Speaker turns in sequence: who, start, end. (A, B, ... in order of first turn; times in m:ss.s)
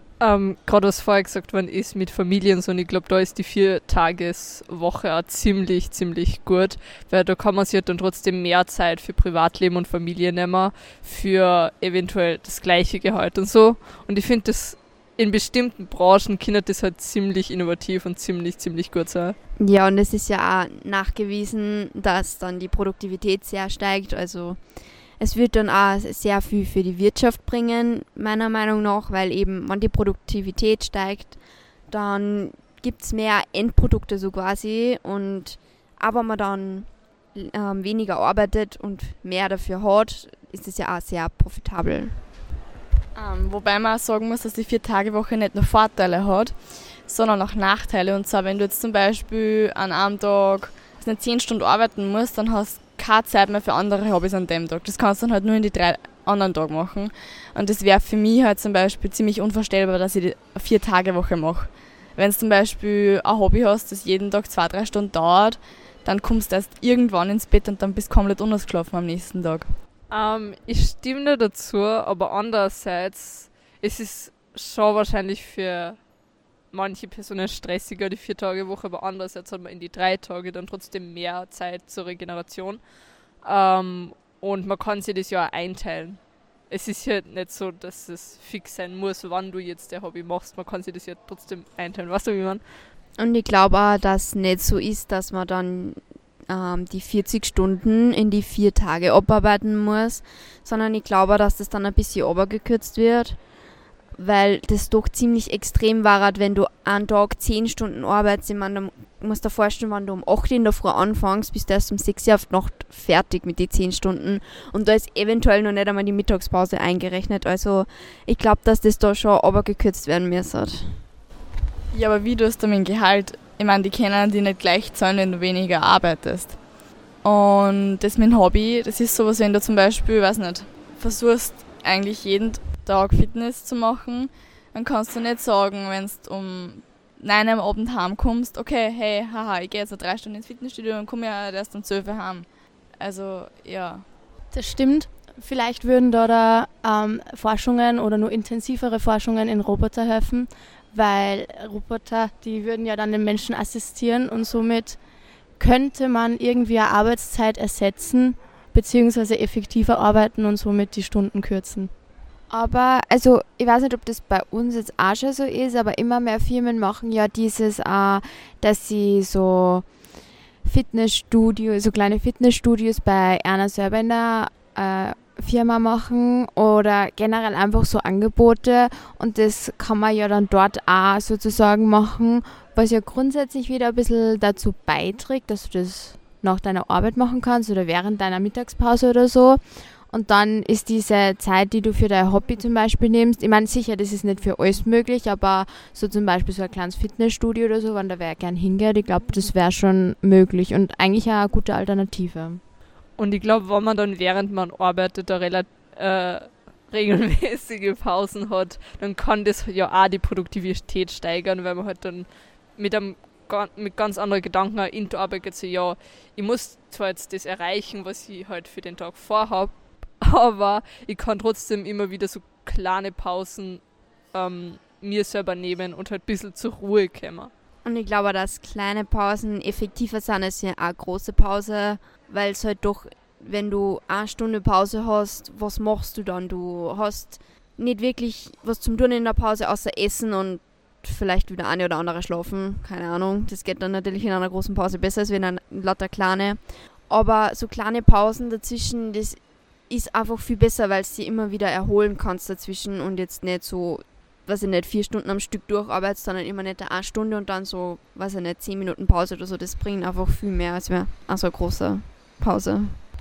0:00.2-0:19.4 A
0:19.6-0:42.2 B
0:43.2-1:09.7 C
1:10.1-1:16.0 A
1:16.7-1:32.7 A
1:33.2-1:43.5 B
1:44.2-2:01.0 B
2:01.9-2:06.6 C
2:07.2-2:24.1 C
2:24.5-2:35.0 D
2:35.6-2:41.9 D
2:42.5-2:49.9 E
2:50.6-3:22.6 E
3:23.2-3:47.5 A
3:47.8-4:23.0 B